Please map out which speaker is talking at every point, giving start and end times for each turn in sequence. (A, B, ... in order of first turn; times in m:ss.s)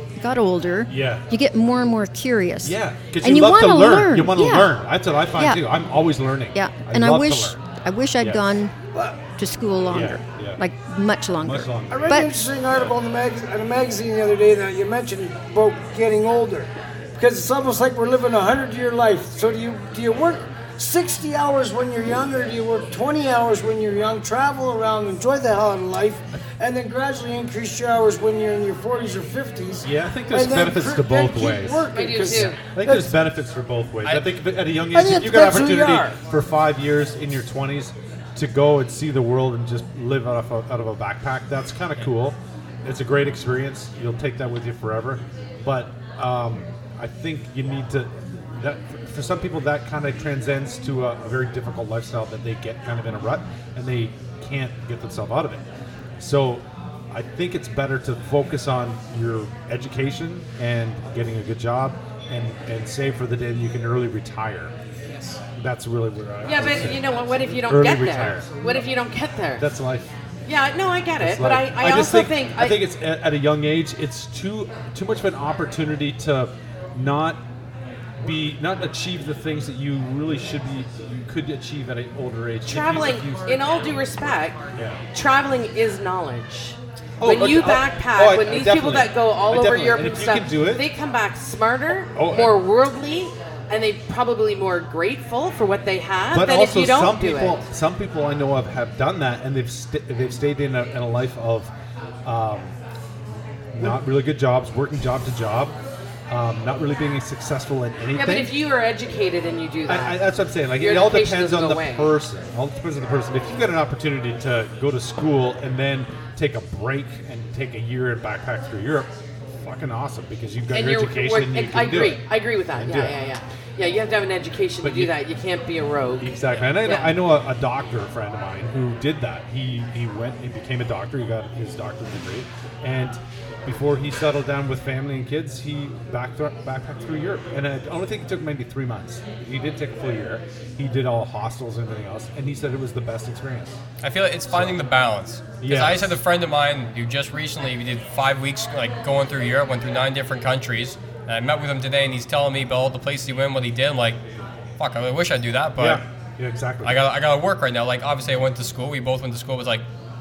0:00.2-0:04.7 A
0:00.9-0:01.2 B
0:02.6-0:07.6 B
0:06.5-0:08.7 A
0:08.9-0:09.2 C
0:09.4-0:12.3 A
0:09.9-0:10.6 B
0:11.4-0:12.2 B
0:11.9-0:33.2 C
0:29.8-0:55.6 B
0:31.9-0:32.6 D
0:34.9-0:36.2 C
0:56.2-1:04.7 B
1:05.5-1:08.6 B
1:06.4-1:09.6 D
1:09.6-1:10.1 B
1:10.4-1:12.8 D
1:11.2-1:17.4 B
1:18.2-1:23.6 B
1:22.6-1:24.6 D
1:24.7-1:25.0 B
1:25.1-1:37.6 D
1:27.2-1:30.9 B
1:32.1-1:32.6 B
1:36.3-1:41.7 B
1:42.2-1:42.7 B
1:43.7-1:45.8 B
1:46.3-1:48.5 B
1:48.2-1:52.1 D
1:49.9-1:59.1 B
1:59.6-2:02.2 B
2:00.7-2:07.1 D
2:02.8-2:03.2 B
2:04.8-2:05.1 B
2:06.2-2:23.8 B
2:24.0-2:34.2 E
2:24.5-2:24.8 B
2:25.6-2:26.2 B
2:34.8-2:36.0 E
2:35.8-2:37.0 B
2:36.8-2:39.8 E